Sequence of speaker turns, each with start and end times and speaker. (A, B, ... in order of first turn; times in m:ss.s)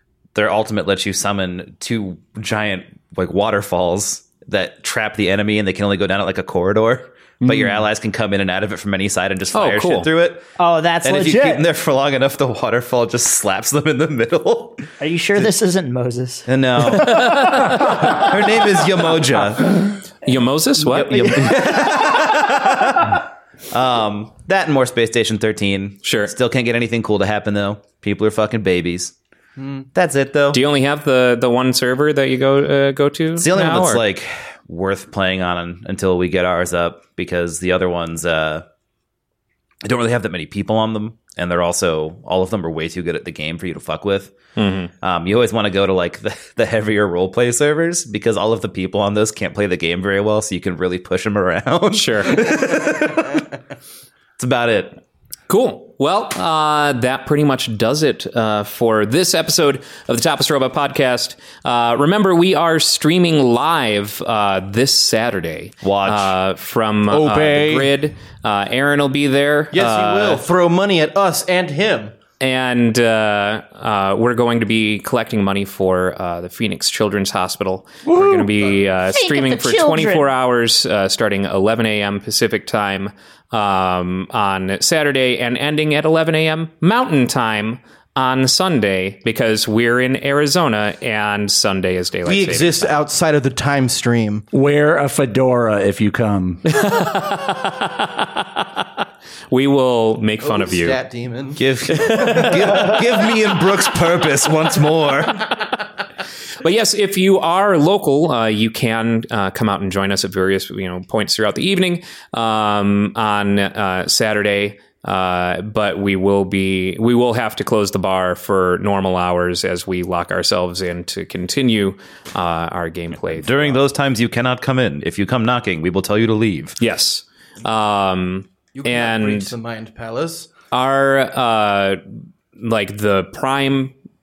0:00.4-0:10.4 A
0:07.4-0:07.8 B
0:09.5-0:10.1 C
0:10.6-0:11.7 D
0:11.0-0:14.8 A
0:15.0-0:16.5 D
0:16.5-0:19.8 A
0:16.9-0:17.8 C
0:17.2-0:18.2 D
0:20.2-0:21.5 C
0:20.8-0:23.1 A
0:21.2-0:22.4 D
0:23.7-0:29.1 A
0:26.0-0:26.3 C
0:29.6-0:29.9 E
0:29.9-0:30.6 A
0:30.5-0:34.0 C
0:33.4-0:38.6 A
0:39.8-0:44.3 A
0:44.6-0:44.9 C
0:45.0-0:53.4 A
0:51.9-0:52.6 C
0:54.4-0:55.0 A
0:55.5-1:10.5 C
1:05.8-1:06.4 A
1:07.2-1:07.6 E
1:09.7-1:12.1 E
1:12.4-1:32.9 C
1:19.1-1:20.3 D
1:32.2-1:34.4 E
1:34.5-1:36.6 B
1:36.7-1:38.3 C
1:39.5-1:41.0 C
1:40.4-1:42.8 E
1:41.6-1:45.4 A
1:42.0-1:43.0 C
1:46.6-2:03.8 C
2:03.2-2:06.8 A
2:06.8-2:09.5 C
2:08.8-2:10.5 E
2:10.7-2:12.0 C
2:12.6-2:14.0 C